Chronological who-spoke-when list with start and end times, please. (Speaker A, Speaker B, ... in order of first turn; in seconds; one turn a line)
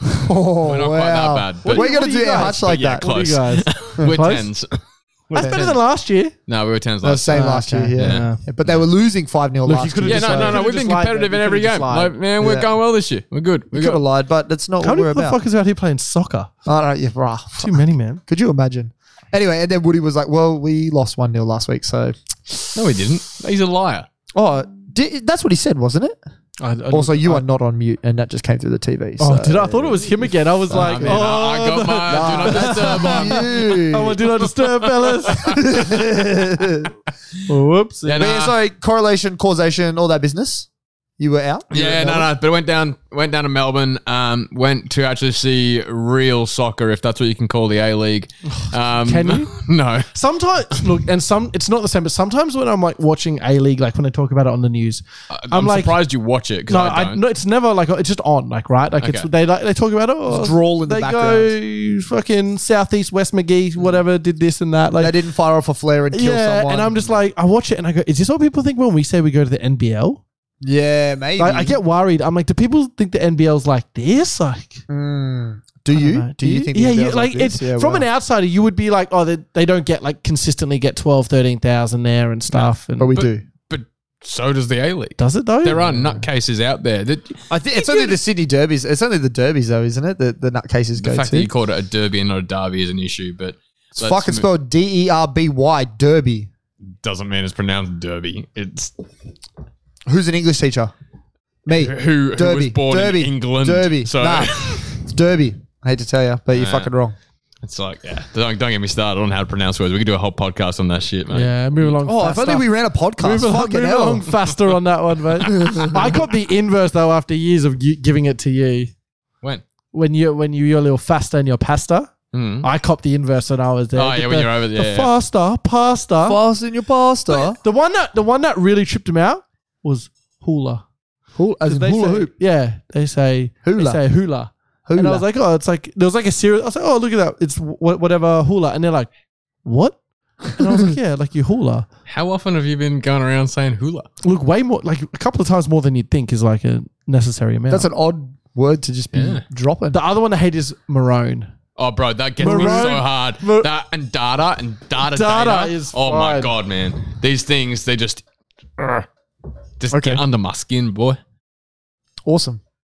Speaker A: 0.2-3.1
Speaker B: 0.6-5.8
Speaker C: 1.6-4.5
Speaker C: 5.3-6.3
Speaker A: 5.4-5.6
Speaker B: 6.5-7.4
Speaker A: 7.0-10.6
Speaker C: 7.3-8.4
Speaker B: 8.0-8.5
Speaker C: 9.7-12.1
Speaker B: 10.1-14.0
Speaker A: 12.4-12.7
Speaker A: 13.7-15.4
Speaker C: 14.8-16.5
Speaker A: 16.6-22.8
Speaker C: 17.6-18.2
Speaker B: 22.7-24.1
Speaker A: 24.3-26.2
Speaker C: 26.6-27.4
Speaker A: 26.9-31.2
Speaker C: 29.2-35.5
Speaker B: 30.9-33.6
Speaker A: 32.1-34.2
Speaker B: 34.4-36.0
Speaker A: 35.4-36.9
Speaker C: 37.5-38.3
Speaker B: 38.0-38.5
Speaker A: 38.2-40.7
Speaker A: 41.2-42.3
Speaker B: 41.7-50.1
Speaker C: 48.5-49.5
Speaker C: 50.1-56.0
Speaker B: 55.3-57.2
Speaker C: 56.7-65.1
Speaker B: 59.0-59.3
Speaker A: 60.3-61.5
Speaker A: 65.0-67.0
Speaker C: 66.1-70.2
Speaker A: 70.6-71.8
Speaker C: 71.4-74.8
Speaker A: 74.9-78.0
Speaker C: 75.9-83.2
Speaker B: 82.5-88.2
Speaker A: 83.0-83.4
Speaker C: 85.2-86.2
Speaker A: 87.5-91.5
Speaker B: 91.0-94.5
Speaker A: 94.0-96.5
Speaker B: 97.0-98.9
Speaker A: 100.1-100.9
Speaker A: 101.7-107.1
Speaker B: 101.7-105.0
Speaker B: 106.5-106.9
Speaker B: 107.6-111.9
Speaker C: 111.3-112.7
Speaker A: 112.0-114.2
Speaker C: 113.2-118.9
Speaker A: 115.5-116.0
Speaker C: 119.9-126.4
Speaker B: 122.3-122.7
Speaker B: 124.0-125.1
Speaker A: 126.2-127.6
Speaker C: 127.3-130.8
Speaker A: 131.3-132.3
Speaker C: 131.7-139.1
Speaker A: 133.6-134.0
Speaker A: 134.8-135.2
Speaker C: 139.6-141.8
Speaker B: 142.1-144.1
Speaker C: 144.2-147.9
Speaker A: 147.7-150.0
Speaker B: 149.1-149.4
Speaker C: 149.9-151.5
Speaker B: 151.8-158.2
Speaker C: 152.4-153.7
Speaker A: 152.4-152.9
Speaker C: 155.0-156.5
Speaker B: 158.8-159.1
Speaker B: 159.8-161.2
Speaker A: 159.9-160.2
Speaker A: 162.2-162.6